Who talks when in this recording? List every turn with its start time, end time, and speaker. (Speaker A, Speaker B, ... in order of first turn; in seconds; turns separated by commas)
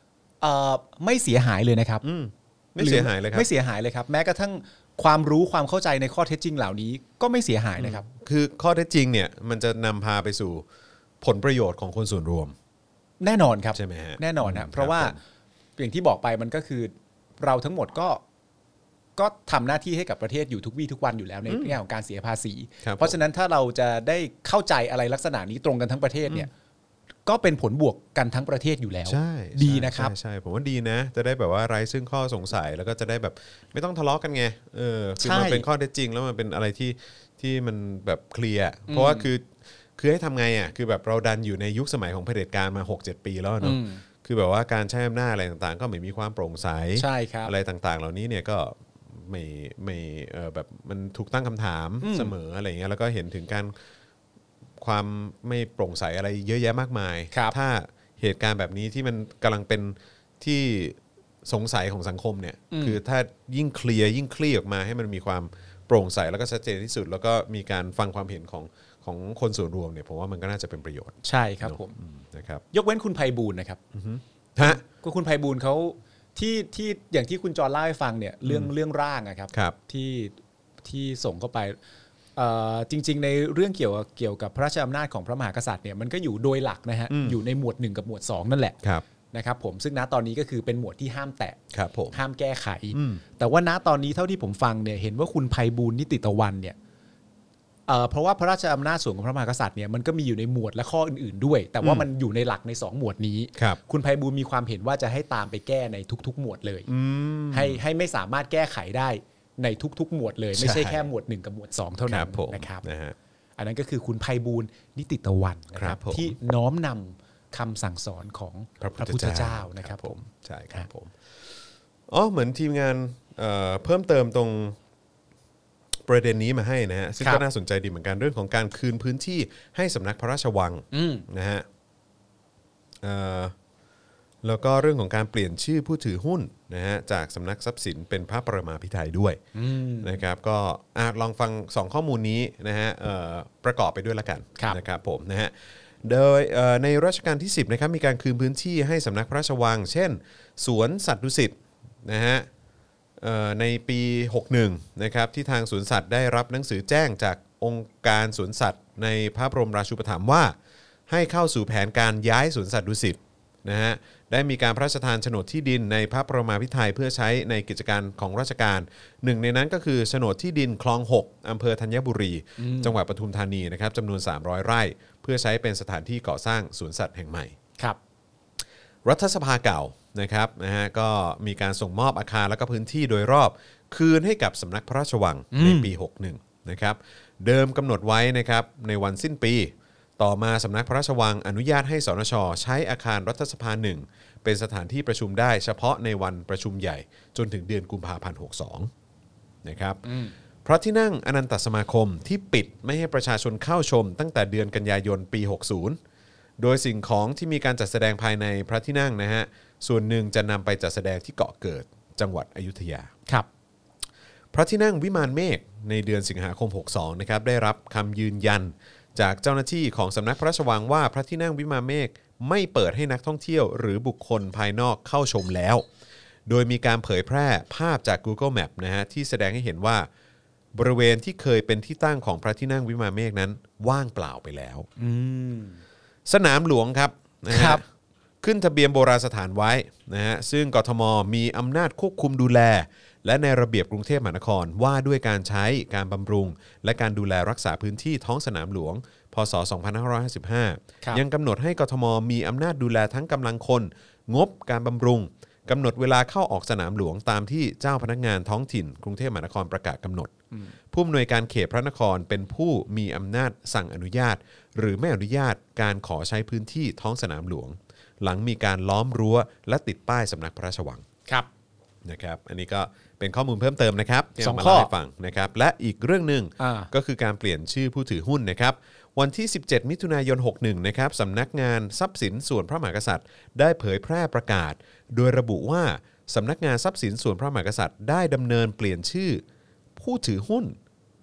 Speaker A: 0.4-2.0, Speaker B: 2.0-3.5, Speaker A: 2.8-8.1, Speaker B: 7.8-10.7, Speaker B: 11.2-12.6, Speaker A: 13.2-15.2, Speaker B: 13.7-15.2, Speaker A: 15.8-18.2, Speaker A: 19.2-26.5, Speaker B: 21.5-21.8, Speaker B: 22.8-23.2, Speaker A: 27.3-30.1, Speaker B: 29.1-53.7, Speaker A: 35.2-35.6, Speaker A: 38.9-39.3, Speaker A: 43.6-44.0, Speaker A: 47.0-47.5, Speaker A: 52.0-52.3, Speaker B: 54.8-72.6, Speaker A: 62.7-63.0, Speaker A: 71.2-72.0, Speaker A: 72.7-73.8, Speaker B: 73.9-74.8, Speaker A: 74.6-81.8, Speaker B: 78.4-78.7, Speaker A: 82.4-88.8, Speaker B: 87.1-87.4, Speaker A: 89.3-91.6, Speaker B: 91.7-92.2, Speaker A: 92.1-96.8, Speaker B: 92.9-93.2, Speaker A: 97.9-106.9, Speaker B: 101.8-102.1, Speaker B: 106.9-107.8, Speaker A: 107.5-112.9, Speaker B: 110.5-111.1, Speaker B: 112.1-113.2, Speaker A: 113.6-120.2, Speaker B: 115.8-116.3, Speaker B: 118.8-121.2, Speaker B: 122.1-124.8, Speaker B: 126.0-131.7, Speaker A: 130.9-131.3, Speaker B: 133.0-133.5, Speaker B: 134.4-139.4, Speaker A: 139.5-140.1, Speaker B: 140.0-152.5, Speaker B: 153.2-160.5, Speaker B: 161.1-177.6, Speaker A: 172.6-173.0, Speaker B: 179.1-198.9, Speaker A: 185.5-185.9, Speaker B: 199.6-200.0, Speaker A: 200.1-200.3, Speaker B: 200.7-206.0, Speaker B: 206.6-213.1, Speaker B: 214.5-225.8, Speaker B: 226.5-230.1, Speaker B: 230.8-234.9, Speaker A: 235.0-235.8, Speaker B: 236.3-237.8, Speaker A: 237.5-237.8, Speaker B: 238.4-260.3, Speaker B: 260.9-271.0, Speaker B: 272.1-289.4, Speaker A: 274.4-274.9, Speaker A: 276.6-276.9, Speaker B: 290.0-290.8